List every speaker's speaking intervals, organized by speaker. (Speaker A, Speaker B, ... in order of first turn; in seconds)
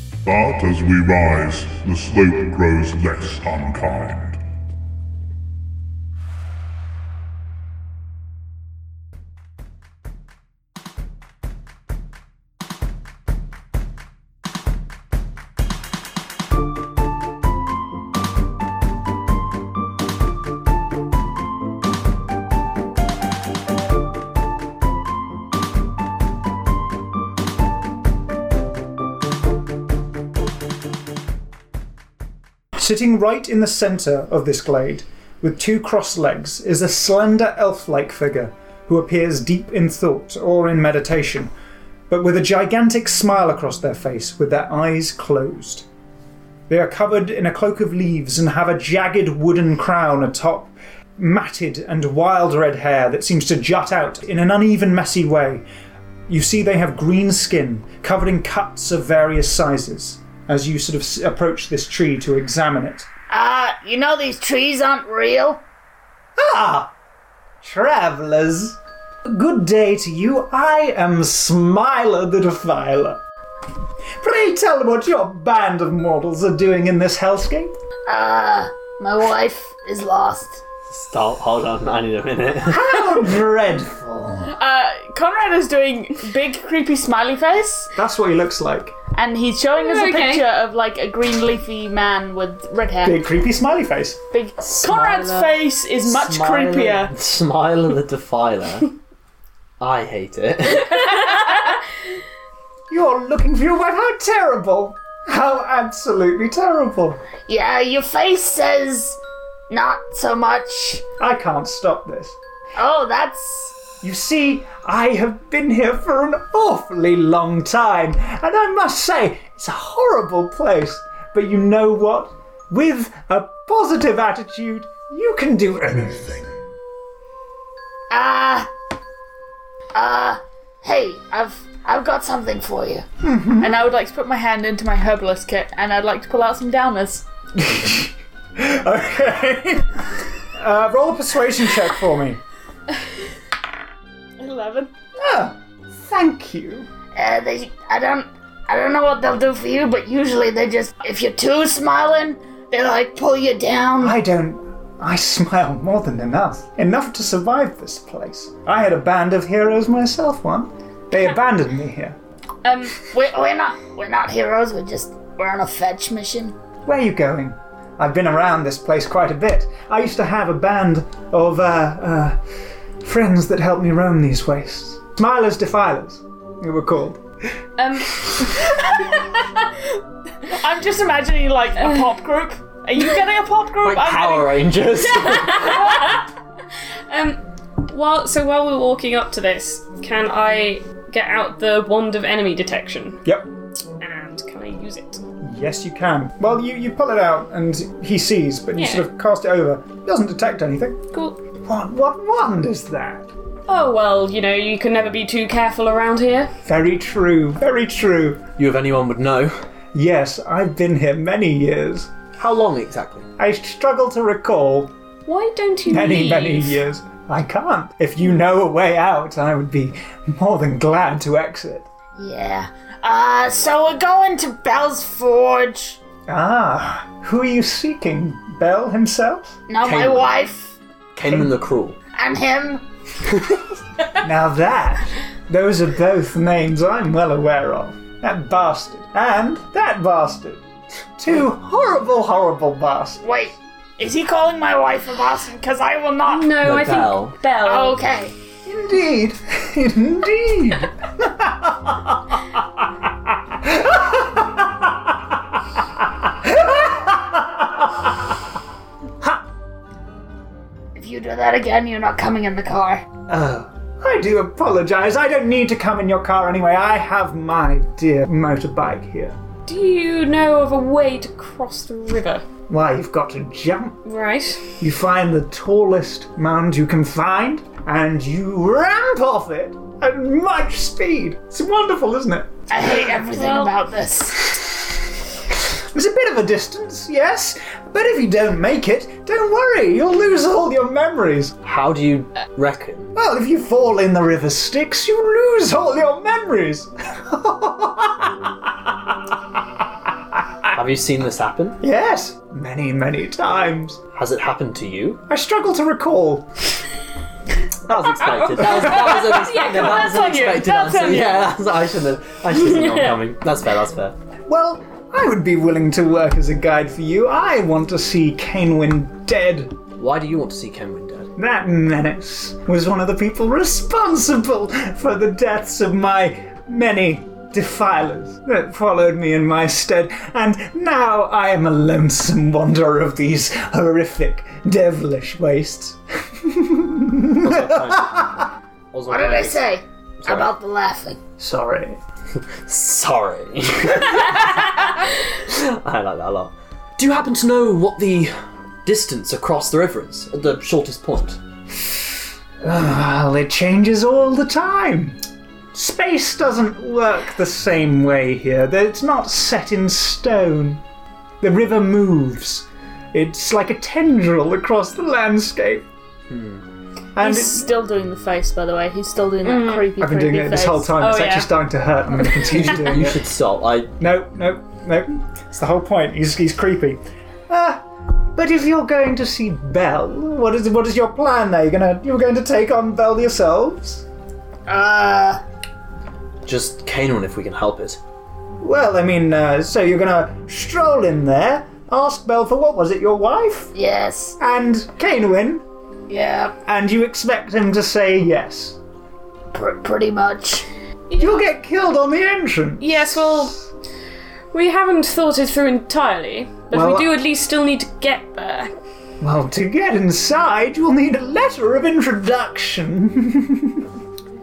Speaker A: 0.2-4.4
Speaker B: 32.8-41.5, 42.1-45.9, 46.7-55.6, 56.3-63.1, 66.4-66.9, 67.6-73.2, 74.2-77.7, 82.7-84.5, 87.9-88.9, 93.0-94.2, 102.9-107.2, 111.2-112.3, 114.0-126.5, 133.2-133.8, 137.5-142.4, 145.2-146.9, 154.0-162.2, 166.8-172.4, 173.0-177.2, 193.2-193.5, 195.4-201.0, 201.6-203.3, 206.6-208.5, 209.9-212.1, 213.4-214.9, 215.9-221.9, 226.3-229.6, 231.2-231.5, 234.2-240.6, 241.2-243.2, 248.6-255.2, 256.0-258.1, 263.3-269.4, 272.7-274.0, 274.8-283.1, 285.7-291.6, 293.1-299.2, 301.8-304.0, 305.3-306.5, 314.5-319.8, 321.4-338.4, 341.4-342.0, 352.6-355.2, 355.7-360.8, 361.4-365.9, 367.1-367.7, 370.0-373.2, 374.0-384.1, 388.6-393.7, 394.4-395.6, 396.6-398.8, 401.1-403.6, 406.7-407.1, 409.2-413.8
Speaker C: 63.3-65.6, 78.1-80.6, 107.5-111.0, 112.8-113.7, 128.1-128.7, 129.9-133.0, 147.1-154.2, 162.8-166.6, 222.2-226.0, 229.7-230.8, 232.1-232.8, 243.2-246.5, 247.6-248.3, 260.9-263.0, 282.7-284.6, 339.1-341.2, 384.7-385.4, 393.7-394.4, 396.1-396.6, 399.5-400.7
Speaker D: 80.9-82.9, 94.8-98.9, 99.8-101.5, 183.8-185.8, 208.6-209.6, 212.4-213.3, 229.8-230.3, 231.1-231.9, 246.6-247.3, 291.6-293.1, 300.7-301.8, 304.1-305.2, 307.9-314.1, 320.0-321.3, 337.4-339.6, 340.2-340.5, 342.5-348.3, 348.8-351.4, 366.3-366.6, 372.4-373.9, 386.4-388.0
Speaker E: 84.5-87.9, 89.1-93.2, 94.3-97.1, 133.6-137.2, 144.4-144.9, 180.5-184.9, 185.4-186.0, 367.2-370.9
Speaker F: 89.7-90.5, 101.0-101.5, 177.8-178.7, 185.3-186.2, 187.1-193.2, 194.0-195.2, 198.7-199.1, 201.1-201.4, 203.7-206.5, 215.2-216.8, 246.2-248.0, 269.6-272.4, 274.1-274.7, 283.3-283.7, 308.2-311.5, 312.7-313.2, 369.4-369.9, 370.9-371.5, 402.8-403.6, 404.5-408.7